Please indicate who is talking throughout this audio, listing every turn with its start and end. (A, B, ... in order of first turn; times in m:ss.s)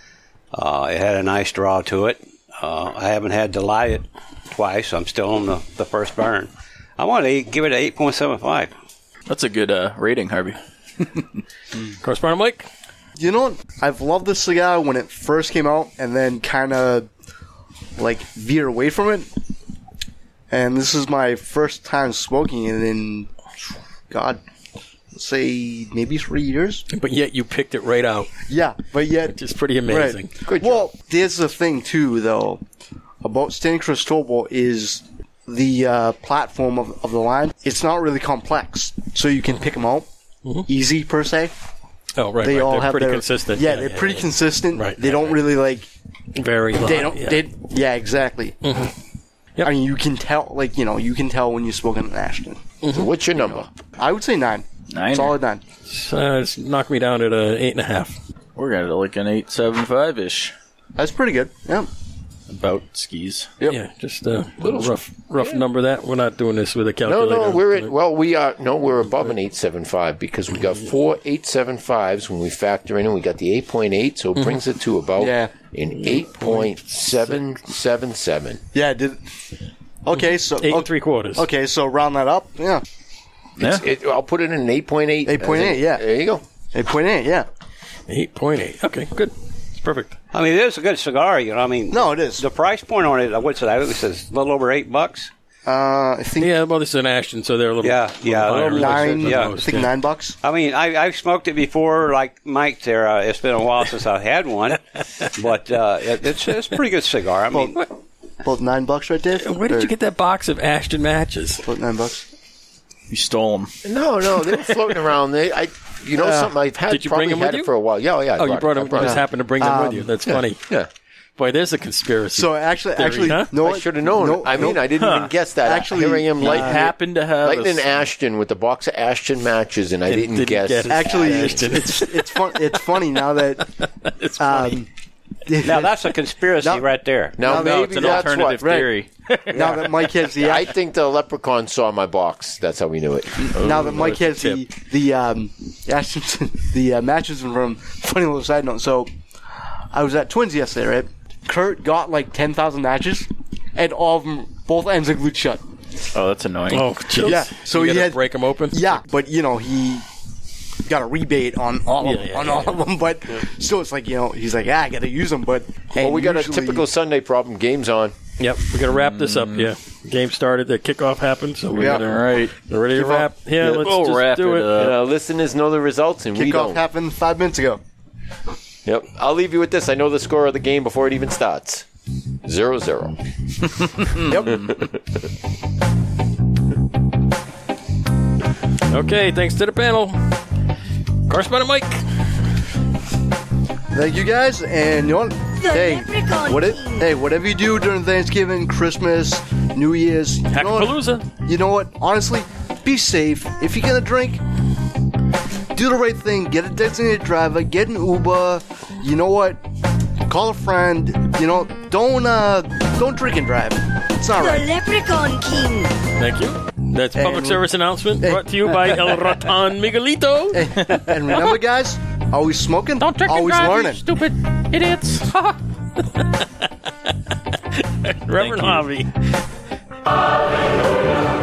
0:00.5-0:08.7 A
0:09.3-0:11.4 B
0:12.0-0:12.7 C
0:13.2-0:17.1 D
0:18.0-0:19.3 D
0:20.5-0:23.3 D
0:24.1-0:24.4 D
0:25.1-0:26.8 D
0:26.9-0:28.3 C
0:28.5-0:32.6 D
0:29.3-0:30.3 C
0:30.4-0:30.9 E
0:33.2-0:40.1 D
0:40.6-0:41.5 D
0:42.2-0:45.4 C
0:42.4-0:45.9 D
0:46.3-0:47.5 C
0:46.8-0:48.6 D
0:48.6-0:48.9 C
0:49.6-0:52.6 D
0:52.8-0:53.1 C
0:52.9-0:53.7 E
0:53.4-0:55.6 D
0:54.9-0:55.3 B
0:55.9-0:58.2 C
0:58.6-1:00.5 B
1:01.0-1:01.9 D
1:02.5-1:03.5 B
1:03.6-1:07.9 C
1:07.0-1:18.6 E
1:15.2-1:15.5 D
1:16.1-1:16.7 C
1:18.7-1:19.2 D
1:20.0-1:22.8 D
1:20.6-1:21.4 C
1:23.6-1:26.4 E
1:23.6-1:23.8 B
1:25.2-1:26.0 D
1:26.7-1:27.5 D
1:28.1-1:30.2 C
1:30.3-1:35.3 A
1:31.9-1:32.4 D
1:35.6-1:36.5 D
1:36.4-1:39.9 C
1:37.8-1:39.6 A
1:38.6-1:40.4 D
1:40.4-1:47.8 A
1:47.5-1:47.9 D
1:48.4-1:49.9 D
1:49.4-1:51.6 C
1:51.6-1:52.2 D
1:53.1-1:53.8 B
1:53.8-1:59.2 E
1:56.2-1:56.5 D
1:56.9-1:57.7 C
1:58.4-2:00.6 C
1:59.0-2:00.1 D
2:00.2-2:00.9 E
2:01.4-2:03.5 C
2:02.3-2:04.8 D
2:03.6-2:11.5 E
2:05.0-2:05.3 B
2:05.6-2:06.8 D
2:06.4-2:07.9 B
2:06.5-2:06.9 C
2:10.1-2:12.6 C
2:10.8-2:13.8 D
2:13.8-2:14.8 C
2:14.4-2:14.9 D
2:15.4-2:16.0 D
2:15.6-2:17.4 A
2:16.6-2:16.8 D
2:17.4-2:18.8 E
2:17.4-2:18.9 D
2:17.4-2:19.8 B
2:19.5-2:20.7 D
2:20.4-2:23.5 E
2:23.5-2:24.3 B
2:23.5-2:29.1 D
2:24.1-2:24.6 C
2:29.8-2:35.6 D
2:36.1-2:37.2 B
2:36.7-2:39.0 C
2:37.2-2:40.0 D
2:40.8-2:46.8 D
2:42.0-2:42.8 C
2:46.0-2:48.2 E
2:48.4-2:54.7 C
2:48.8-2:49.7 B
2:51.7-2:52.0 D
2:51.8-2:55.0 B
2:54.7-2:56.8 E
2:56.3-2:57.8 D
2:58.8-3:01.9 E
3:02.4-3:03.2 E
3:04.2-3:04.7 D
3:04.3-3:05.0 E
3:08.9-3:10.2 C
3:11.3-3:12.0 C
3:13.9-3:24.4 D
3:15.6-3:17.1 F
3:20.5-3:21.3 C
3:25.7-3:29.6 D
3:30.2-3:34.7 D
3:34.3-3:36.0 F
3:36.2-3:40.9 C
3:37.1-3:37.6 D
3:38.2-3:39.2 D
3:40.5-3:44.0 D
3:41.3-3:41.6 G
3:43.0-3:45.6 G
3:46.2-3:46.4 C
3:47.7-3:49.1 C
3:48.3-3:48.8 B